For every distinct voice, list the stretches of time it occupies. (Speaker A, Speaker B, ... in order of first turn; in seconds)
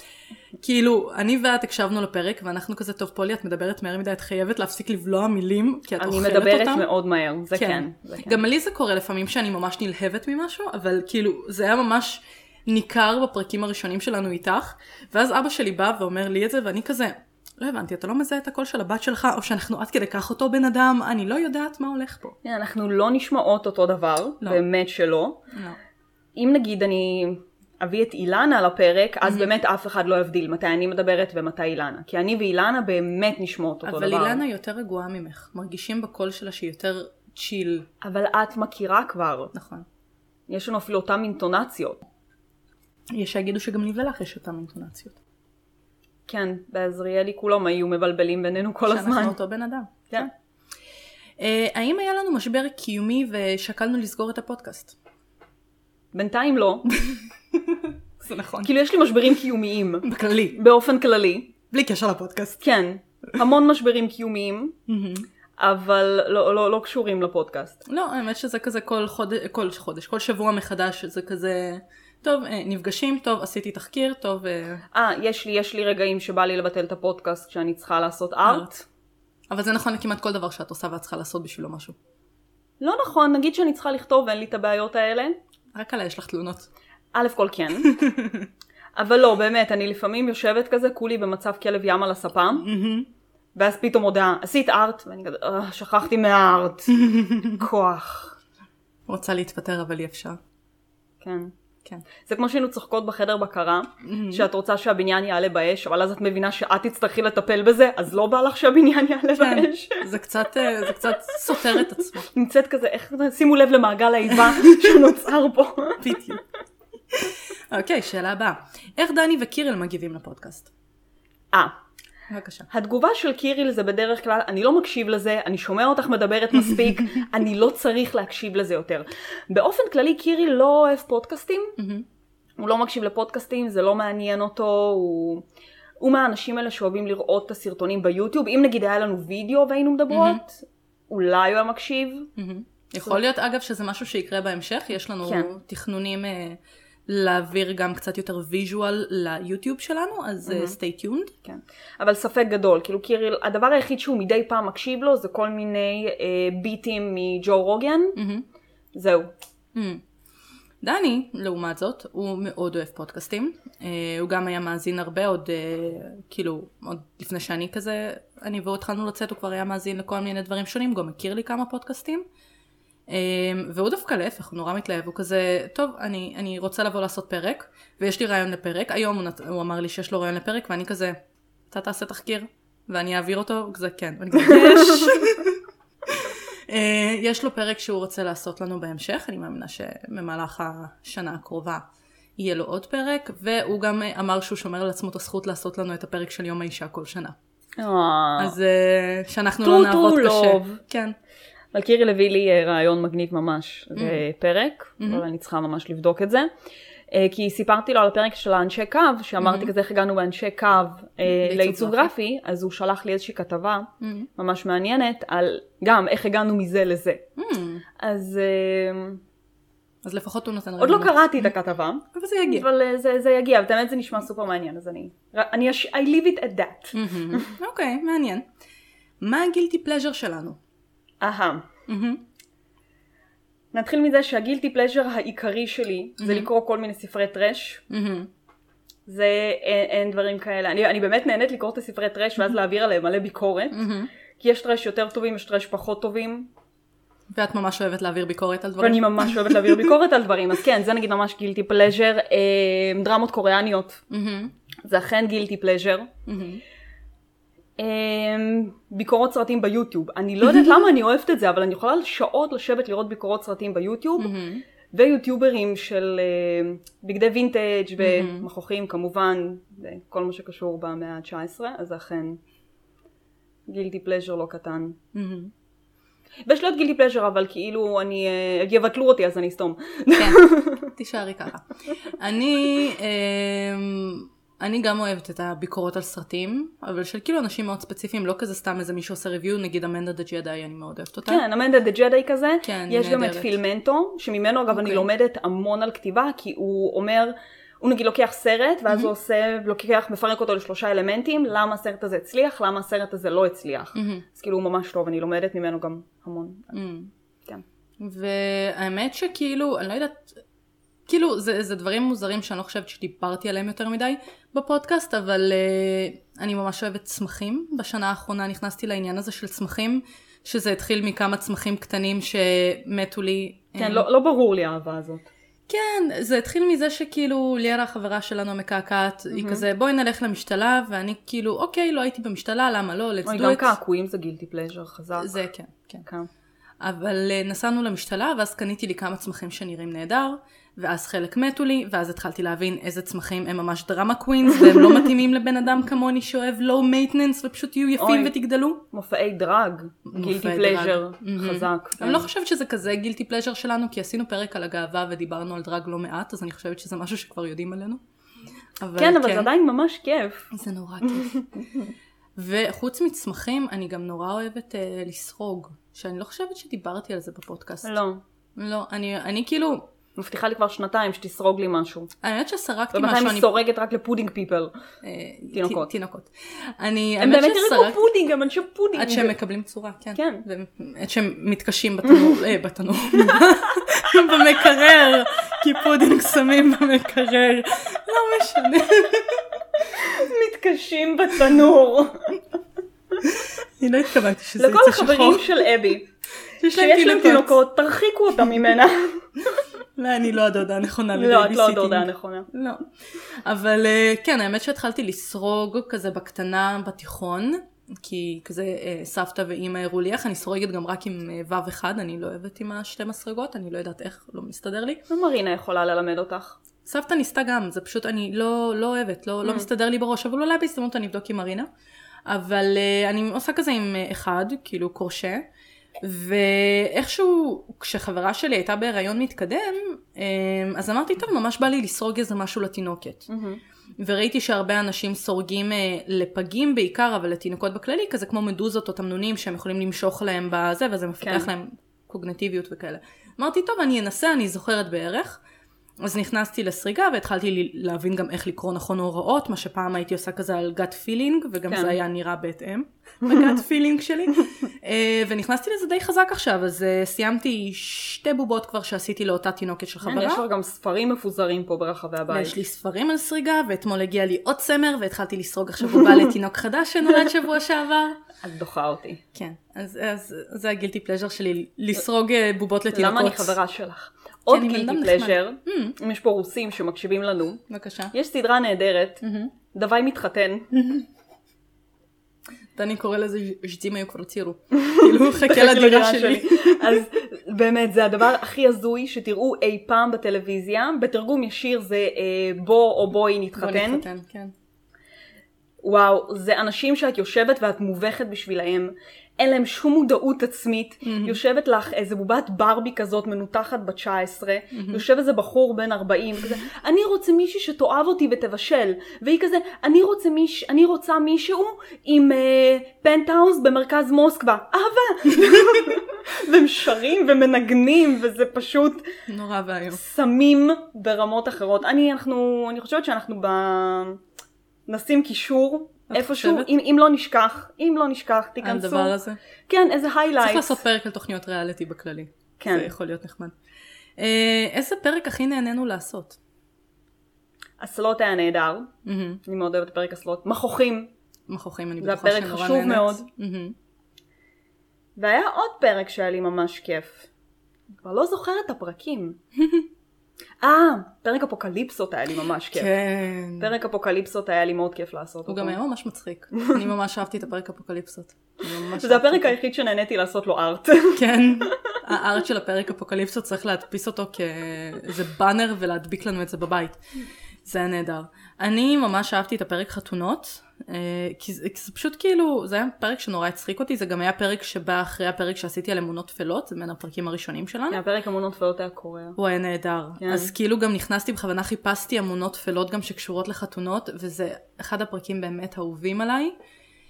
Speaker A: 0.6-6.9, 7.5-22.4, 25.5-25.8, 33.8-37.9, 39.5-39.9, 43.1-45.2, 48.9-50.0, 51.4-55.0, 57.1-58.7, 60.0-60.6, 61.7-62.6, 64.9-65.3, 67.9-74.8, 78.5-78.7, 79.5-82.0, 85.7-86.7, 87.8-88.5, 92.6-93.1, 96.9-97.7, 99.1-100.4, 104.0-104.5, 109.4-112.3, 116.0-116.4, 117.1-120.7, 122.3-122.7, 131.8-132.1, 140.1-140.4, 142.4-151.3, 158.2-158.4, 159.8-160.0, 160.8-172.2, 173.1-181.2, 181.7-191.8, 192.4-197.4, 198.4-201.2, 204.0-204.2, 209.4-209.7, 211.2-212.1, 214.0-214.3, 217.4-217.8, 220.0-221.5, 222.1-222.7, 226.9-228.5, 229.2-230.6, 231.9-232.2, 236.2-236.5, 237.9-238.3, 243.7-244.1, 247.3-249.9, 254.1-254.5, 256.3-256.6, 264.2-264.6, 268.0-268.5, 275.1-275.5, 280.2-291.4, 292.6-293.6, 294.7-295.1, 303.9-304.2, 306.7-307.1, 308.0-310.4, 311.1-324.1, 325.7-333.8, 335.2-336.1, 336.8-348.8, 350.1-358.0, 358.8-359.5, 360.5-361.5, 362.4-368.0, 368.6-369.9, 372.2-373.6, 375.0-378.0, 378.9-389.8, 393.2-395.6, 396.6-397.6, 400.0-415.0, 416.9-421.7, 422.3-425.4, 426.0-433.3, 434.0-445.4, 446.0-460.4, 462.3-468.2, 469.3-473.6, 474.5-476.0, 477.7-478.1, 479.2-479.5, 480.7-481.0, 482.8-487.0, 493.6-494.5, 501.0-501.4, 504.7-505.0, 519.3-520.0, 526.1-526.7, 528.6-529.4, 530.4-533.5, 534.2-536.4, 539.0-539.4, 541.5-543.8, 549.6-549.9, 552.7-553.7, 555.5-559.5, 561.1-567.0, 567.6-578.0, 579.4-586.5
Speaker B: 6.0-8.4, 22.4-25.4, 26.4-34.4, 38.0-39.5, 40.5-42.0, 46.3-49.4, 56.1-57.0, 58.6-61.5, 62.6-64.8, 65.6-67.8, 74.9-78.8, 82.8-85.4, 87.1-87.9, 89.0-92.7, 93.6-97.0, 97.5-98.4, 101.2-101.5, 102.2-110.1, 112.3-116.0, 122.7-131.8, 132.6-135.4, 136.0-142.3, 145.2-145.5, 150.4-150.8, 151.4-158.2, 158.9-159.3, 184.4-185.1, 197.8-198.6, 199.6-200.8, 201.7-206.5, 207.1-217.2, 218.0-219.2, 220.8-227.5, 231.2-231.7, 233.7-237.8, 239.1-243.8, 244.4-246.5, 248.8-254.0, 254.9-256.1, 257.8-264.3, 264.9-272.4, 273.7-275.0, 276.5-280.9, 291.3-306.7, 323.8-325.2, 329.3-329.6, 333.2-335.4, 348.0-348.3, 348.9-352.3, 359.0-360.5, 361.1-361.8, 367.8-368.2, 370.2-372.1, 372.9-374.7, 375.5-375.9, 377.2-379.4, 380.1-380.4, 389.9-392.4, 394.6-396.1, 396.7-399.2, 401.1-402.5, 415.1-416.6, 433.3-433.6, 441.2-441.5, 451.7-452.0, 460.0-462.6, 468.4-469.2, 472.9-477.6, 478.1-480.7, 484.8-494.1, 495.8-519.1, 519.9-524.2, 524.9-529.1, 529.7-530.8, 532.6-532.9, 537.8-538.9, 539.5-541.1, 542.0-543.2, 545.2-547.3, 548.0-549.4, 550.6-552.9, 553.6-555.8, 559.0-562.0, 577.9-579.4, 580.2-580.5